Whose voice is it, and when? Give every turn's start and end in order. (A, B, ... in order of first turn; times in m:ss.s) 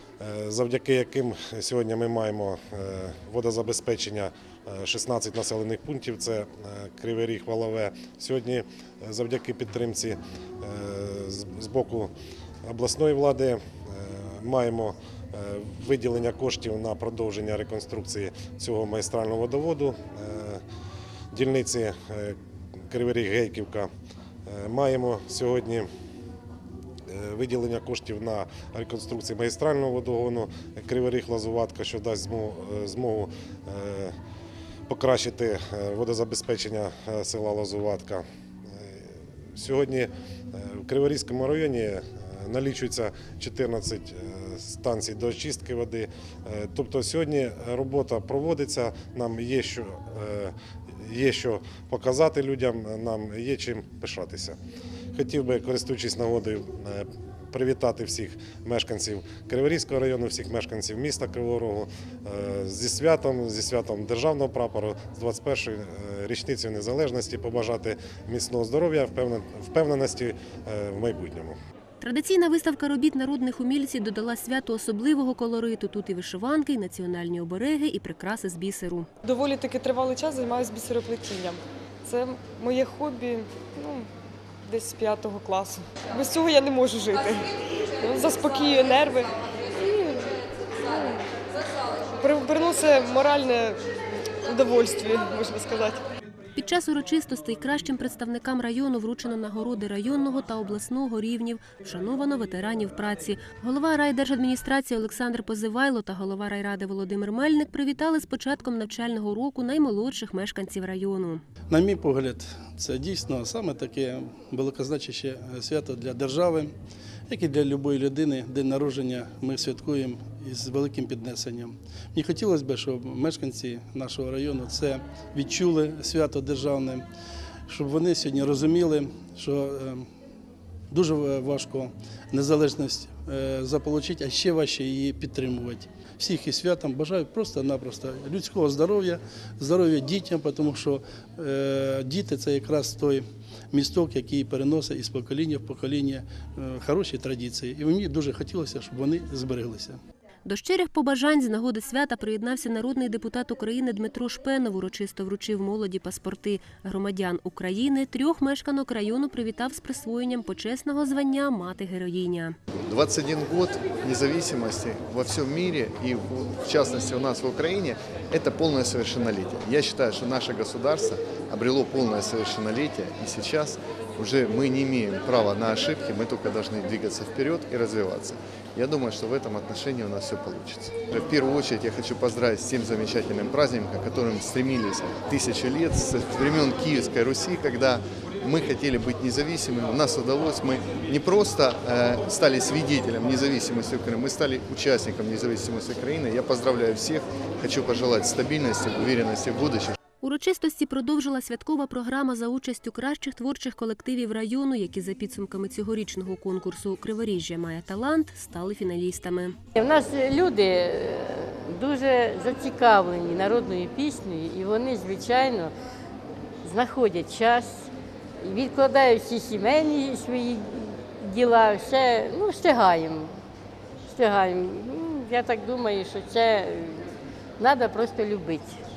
0:00.2-0:12.1 A
0:12.6-0:20.6 A
0:21.3-0:23.9 A
0:24.5-0:25.9 A
0:27.1-0:34.2 A
0:34.9-0:54.6 A
0:55.1-1:11.6 A
1:12.0-1:19.1 B
1:19.3-1:24.1 C
1:24.7-1:27.4 C
1:28.0-1:29.3 C
1:32.2-1:33.8 C
1:34.5-1:36.0 C
1:36.6-1:51.4 B
1:51.7-1:56.7 D
1:57.3-2:07.1 D
2:07.7-2:10.1 D
2:10.9-2:30.0 D
2:30.5-2:42.6 B
2:42.8-3:20.0 E
3:20.2-3:29.6 B
3:29.8-3:35.7 F
3:36.6-3:37.9 F
3:38.4-3:43.4 F
3:44.1-3:48.8 F